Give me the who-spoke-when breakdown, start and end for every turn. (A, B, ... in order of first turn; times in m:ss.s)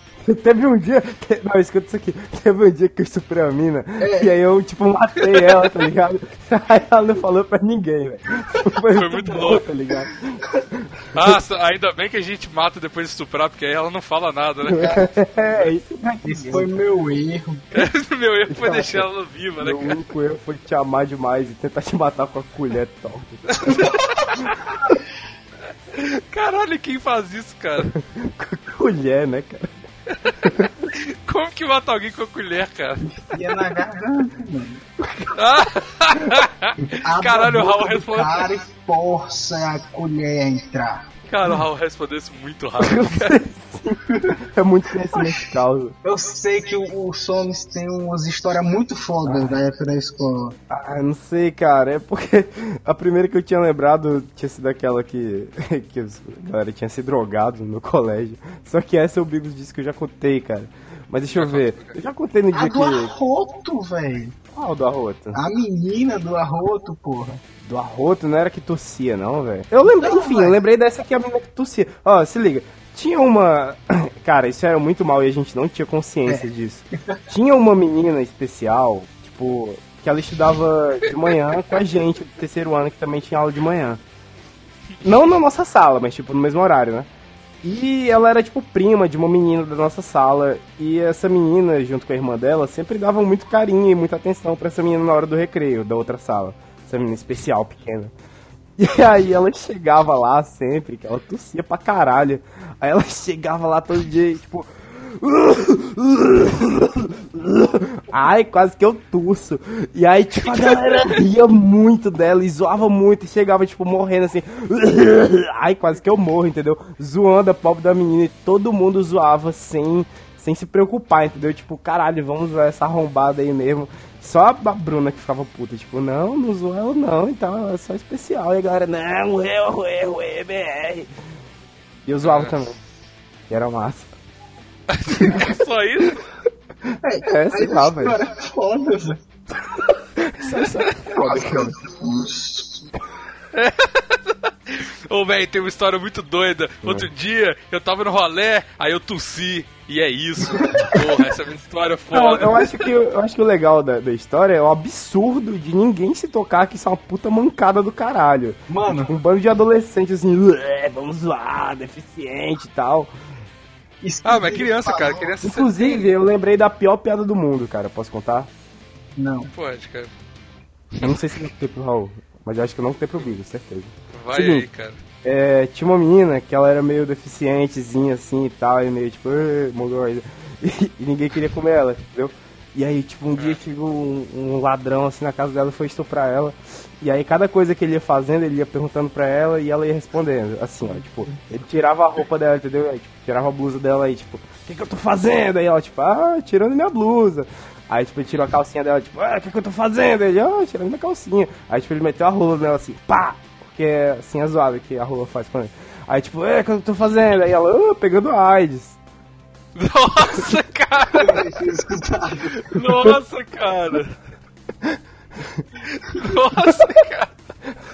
0:00.2-0:11.4 A
0:04.0-0:04.3 B
0:08.9-0:09.6 C
0:11.1-0:15.7 C
0:14.7-0:16.7 A
0:14.8-0:15.1 B
0:16.2-0:17.7 B
0:17.7-0:20.0 C
0:18.5-0:19.1 A
0:19.6-0:23.9 A
0:23.5-0:24.5 C
0:25.9-0:27.9 C
0:27.9-0:29.8 A
0:30.1-0:33.2 C
0:30.4-0:30.7 A
0:33.2-0:34.8 B
0:35.0-0:35.3 A
0:35.3-0:38.5 C
0:37.0-0:41.1 B
0:41.3-0:43.4 C
0:42.8-0:46.0 A
0:44.1-0:44.4 B
0:45.1-0:45.4 B
0:46.0-0:50.6 B
0:49.2-0:49.6 A
0:50.7-1:03.1 A
1:01.3-1:02.0 C
1:02.5-1:04.4 B
1:04.5-1:05.4 A
1:05.3-1:07.4 B
1:07.6-1:24.0 A
1:09.9-1:10.6 B
1:16.3-1:17.2 B
1:25.0-1:27.1 A
1:27.6-1:38.1 A
1:38.8-2:11.1 A
1:50.5-1:51.2 C
2:12.1-2:12.8 A
2:12.2-2:12.6 C
2:13.5-2:14.1 A
2:14.9-2:16.3 C
2:17.0-2:19.2 B
2:17.3-2:18.2 A
2:20.2-2:21.8 A
2:21.1-2:22.9 B
2:23.5-2:32.9 C
2:26.8-2:27.1 A
2:32.1-2:43.1 A
2:38.7-2:39.2 B
2:44.0-2:45.4 B
2:44.2-2:46.1 C
2:45.4-2:48.5 A
2:49.2-2:49.5 B
2:49.5-2:50.1 C
2:50.9-2:51.5 C
2:51.0-2:54.7 A
2:54.1-2:55.0 C
2:55.2-3:29.0 A
3:03.4-3:03.6 C
3:18.3-3:18.5 C
3:29.8-3:31.5 C
3:31.1-3:32.8 B
3:32.5-3:34.2 C
3:34.8-3:35.6 A
3:35.8-3:37.3 C